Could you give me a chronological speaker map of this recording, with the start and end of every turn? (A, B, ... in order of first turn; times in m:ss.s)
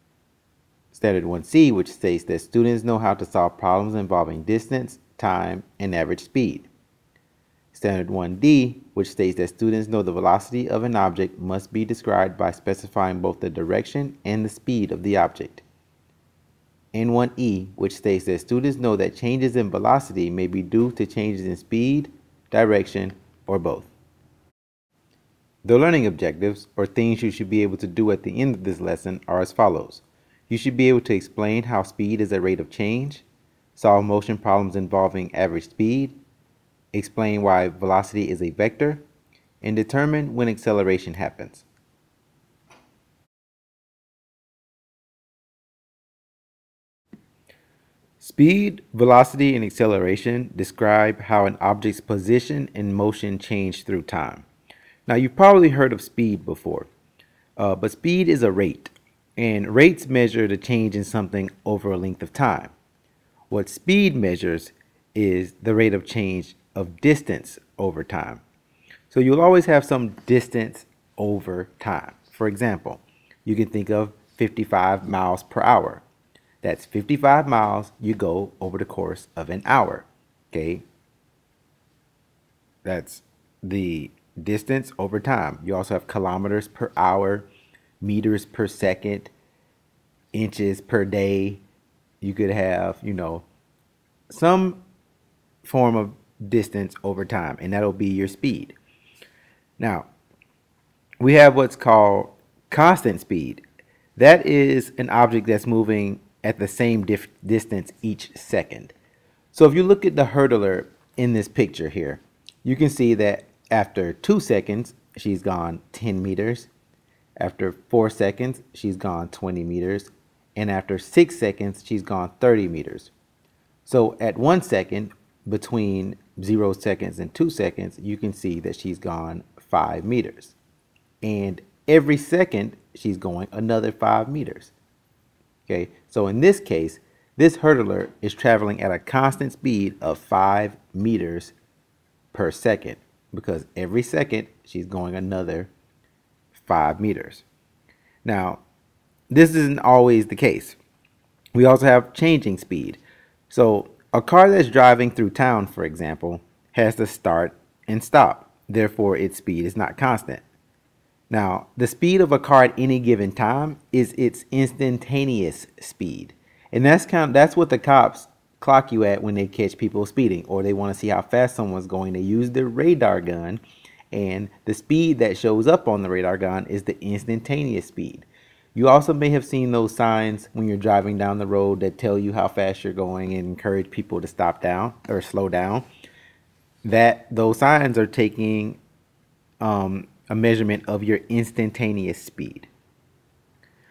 0:00.9-0:06.7 A
0:07.7-0:15.6 A
0:16.9-0:23.9 A
0:25.6-0:36.2 A
0:36.9-0:39.0 A
0:39.6-0:41.7 A
0:48.2-0:54.5 A
0:55.1-0:56.9 A
0:57.6-1:02.7 A
1:03.5-1:08.4 A
1:09.1-1:16.0 A
1:16.6-1:20.8 A
1:22.8-1:27.5 A
1:28.0-1:29.3 A
1:30.3-1:31.6 A
1:32.2-1:33.4 A
1:34.3-1:34.8 A
1:35.6-1:38.8 A
1:39.8-1:40.1 A
1:41.2-1:43.6 A
1:44.2-1:48.9 A
1:49.5-1:56.7 A
1:57.4-2:03.1 A
2:03.8-2:10.6 A
2:11.2-2:14.7 A
2:15.7-2:21.5 A
2:22.3-2:25.7 A
2:26.5-2:27.4 A
2:28.2-2:28.6 A
2:29.3-2:30.8 A
2:31.5-2:40.4 A
2:41.3-3:05.9 A
3:06.8-3:08.8 A
3:09.6-3:12.7 A